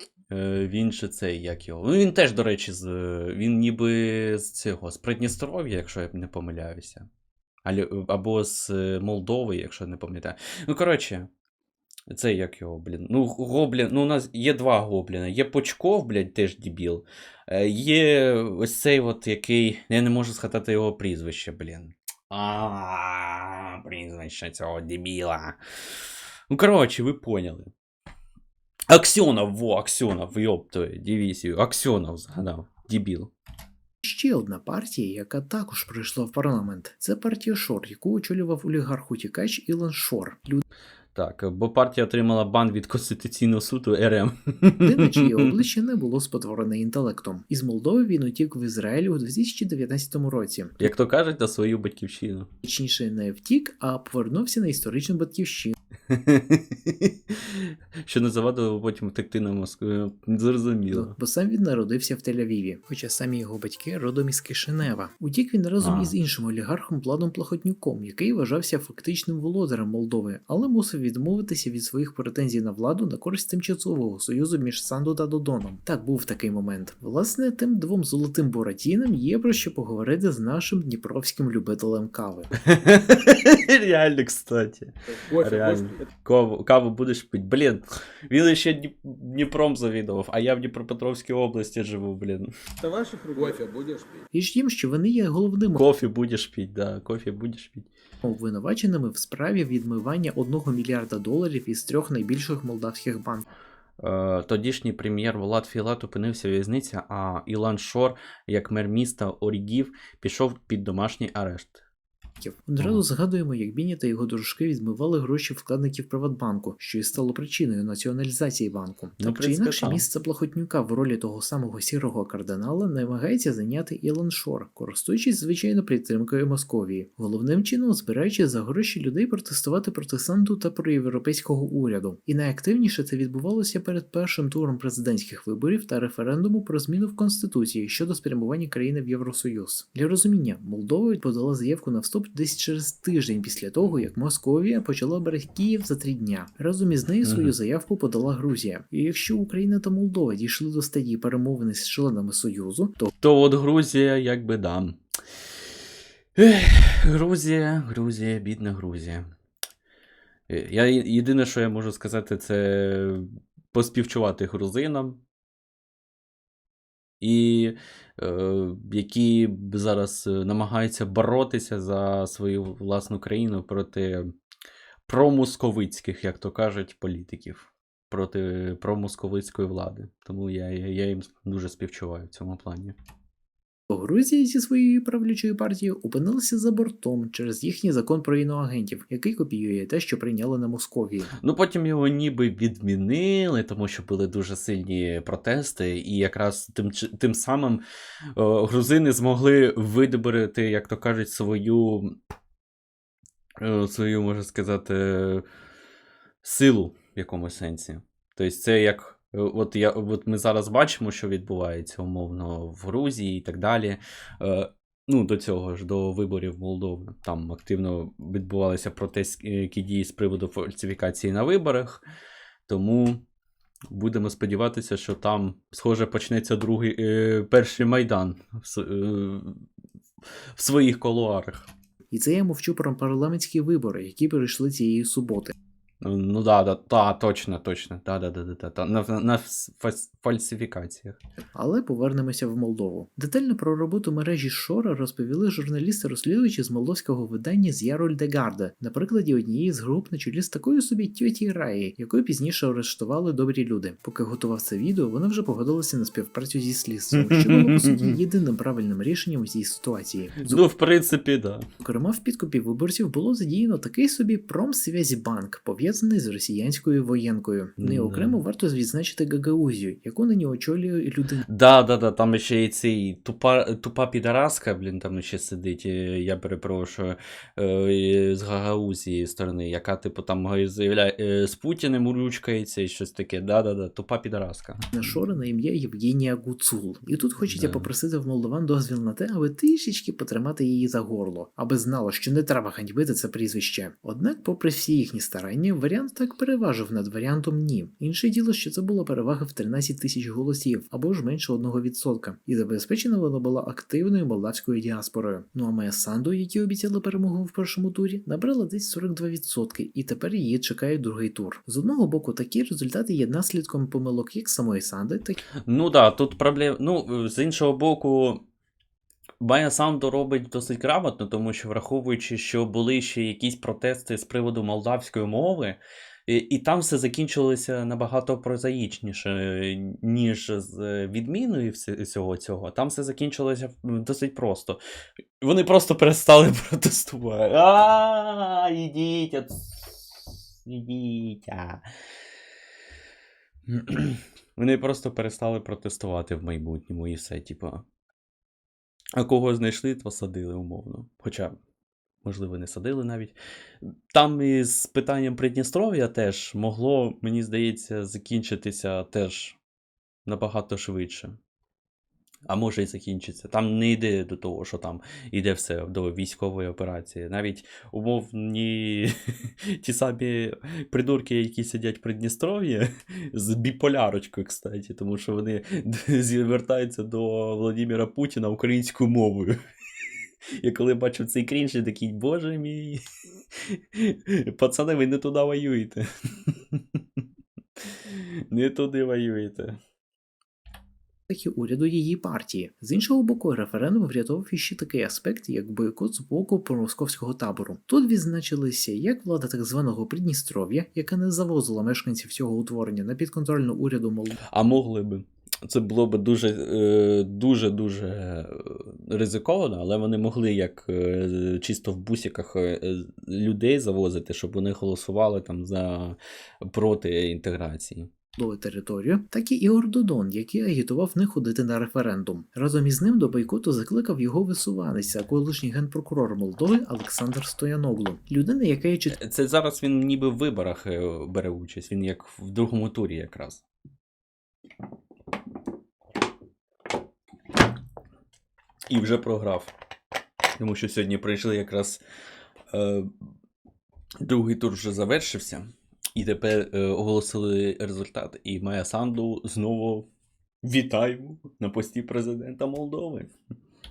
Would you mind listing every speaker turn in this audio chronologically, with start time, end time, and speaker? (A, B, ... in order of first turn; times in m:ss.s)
0:00.3-0:07.1 A
0:07.6-0:11.3 A
0:12.1-0:25.6 A
0:26.5-0:27.7 A
0:28.9-0:33.3 A
0:34.0-0:40.6 B
0:41.1-0:45.5 A
0:44.8-0:50.9 B
0:50.8-0:52.5 A
0:52.6-0:55.8 B
0:56.1-1:01.2 A
1:00.9-1:22.5 B
1:05.8-1:06.1 A
1:22.6-1:32.5 A
1:25.3-1:26.1 C
1:32.8-1:34.2 C
1:34.3-1:35.8 B
1:35.8-1:37.9 A
1:38.2-1:43.4 B
1:44.0-1:51.8 A
1:52.4-2:33.1 B
1:59.2-2:00.0 A
2:27.2-2:27.5 A
2:33.2-2:35.6 A
2:36.3-2:39.3 A
2:40.5-2:45.2 A
2:47.2-2:54.3 A
2:55.1-3:03.0 A
3:03.9-3:11.3 B
3:11.3-3:17.8 A
3:18.4-3:22.2 A
3:23.6-3:25.4 A
3:26.4-3:42.0 A
3:42.7-3:43.2 A
3:43.9-3:49.6 A
3:50.6-3:51.7 A
3:52.1-3:55.5 B
3:56.0-4:01.2 A
4:01.5-4:20.6 B
4:17.1-4:18.2 A
4:20.4-4:21.7 A
4:21.8-4:31.4 B
4:27.8-4:28.4 A
4:31.5-4:44.8 A
4:44.9-5:15.4 B
4:47.5-4:47.9 A
5:15.6-5:18.4 A
5:19.4-5:34.8 A
5:35.4-5:41.8 A
5:43.7-5:47.8 A
5:49.1-5:51.6 A
5:52.2-5:59.6 A
6:00.2-6:01.4 A
6:02.5-6:19.6 A
6:20.6-6:23.0 A
6:23.6-6:26.8 A
6:27.9-6:29.8 A
6:31.3-6:44.4 B
6:44.5-6:58.1 A
6:58.4-7:09.2 B
7:09.1-7:13.6 A
7:18.9-7:19.7 A
7:20.6-7:22.0 A
7:22.7-7:23.1 A
7:24.2-7:30.1 A
7:30.6-7:33.3 A